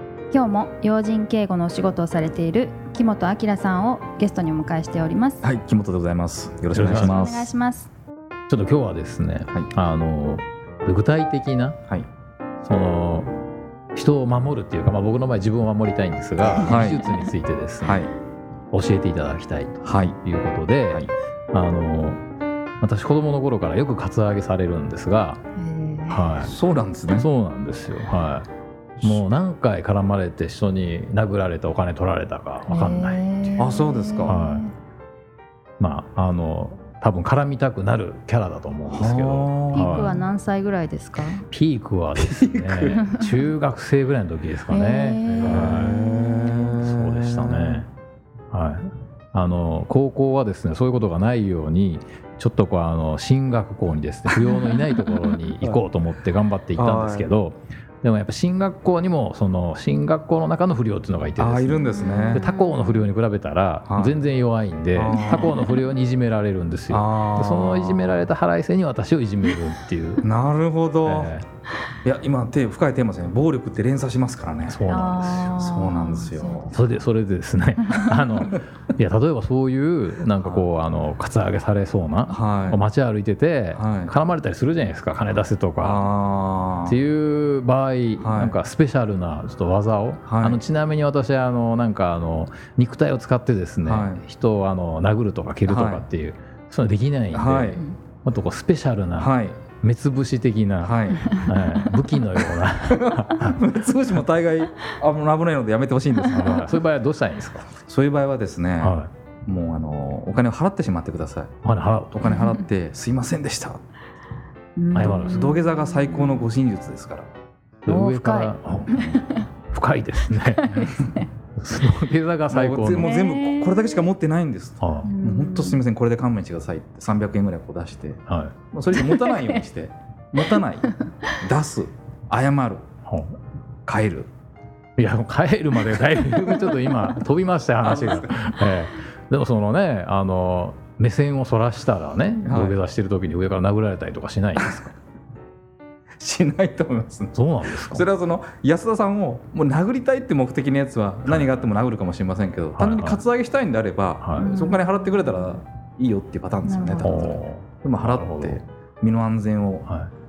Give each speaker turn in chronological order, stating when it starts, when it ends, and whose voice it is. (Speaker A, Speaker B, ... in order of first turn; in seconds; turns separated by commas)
Speaker A: 0.3-5.4, Speaker B: 5.4-7.5, Speaker C: 6.7-7.3, Speaker A: 6.9-7.9, Speaker C: 8.5-11.8, Speaker C: 12.6-13.3, Speaker C: 13.9-18.1, Speaker A: 16.5-16.8, Speaker B: 16.5-17.1, Speaker B: 17.8-18.1, Speaker C: 18.7-22.2, Speaker B: 19.8-20.2, Speaker C: 22.8-25.4, Speaker A: 25.6-26.4, Speaker C: 26.1-26.5, Speaker B: 26.4-27.2, Speaker C: 27.1-28.5, Speaker B: 29.0-29.2, Speaker C: 29.0-33.2, Speaker A: 32.7-34.7, Speaker B: 33.6-34.4, Speaker C: 34.3-34.6, Speaker C: 35.8-40.2, Speaker B: 38.9-40.2, Speaker A: 39.7-41.5, Speaker C: 41.5-46.0, Speaker B: 42.1-43.0, Speaker A: 43.0-43.4, Speaker A: 44.7-46.7, Speaker B: 45.4-47.8, Speaker C: 46.7-47.9, Speaker C: 48.5-70.3, Speaker A: 54.8-55.2, Speaker B: 56.8-57.3, Speaker B: 61.4-62.5, Speaker A: 61.8-62.9, Speaker B: 63.9-64.2, Speaker B: 64.9-65.7, Speaker A: 65.1-65.8, Speaker B: 66.9-68.2, Speaker B: 70.2-71.3, Speaker C: 71.0-71.4, Speaker B: 72.0-76.8, Speaker C: 74.7-75.5, Speaker A: 74.9-76.7, Speaker C: 76.7-86.0, Speaker B: 80.3-80.7, Speaker B: 82.3-82.8, Speaker B: 83.7-84.1, Speaker B: 85.8-87.0, Speaker C: 86.8-103.6, Speaker B: 88.2-88.6, Speaker B: 90.2-90.6, Speaker B: 93.8-94.2, Speaker B: 95.7-96.0, Speaker B: 97.3-97.8, Speaker B: 99.2-99.6, Speaker B: 100.8-101.3, Speaker B: 102.8-106.8, Speaker C: 106.3-107.7, Speaker B: 107.8-113.8, Speaker C: 108.8-109.1, Speaker C: 111.6-112.1, Speaker A: 114.8-116.5, Speaker B: 114.9-117.3, Speaker C: 114.9-115.5, Speaker C: 117.8-119.2, Speaker A: 117.9-119.4, Speaker B: 118.7-119.2, Speaker C: 119.7-120.9, Speaker A: 120.4-121.2, Speaker C: 121.5-123.2, Speaker B: 122.5-128.2, Speaker A: 123.0-124.0, Speaker C: 124.8-125.1, Speaker A: 125.0-125.8, Speaker C: 128.3-128.5, Speaker B: 128.7-132.8, Speaker A: 128.9-129.6, Speaker C: 133.1-133.4, Speaker B: 133.8-134.3, Speaker C: 135.0-144.9, Speaker B: 137.8-138.5, Speaker B: 142.4-142.8, Speaker B: 146.2-159.9, Speaker C: 147.3-148.1, Speaker C: 151.3-151.6, Speaker C: 152.8-153.2, Speaker C: 154.2-154.5, Speaker A: 154.4-154.9, Speaker A: 156.6-157.2, Speaker C: 157.0-158.6, Speaker C: 159.8-160.1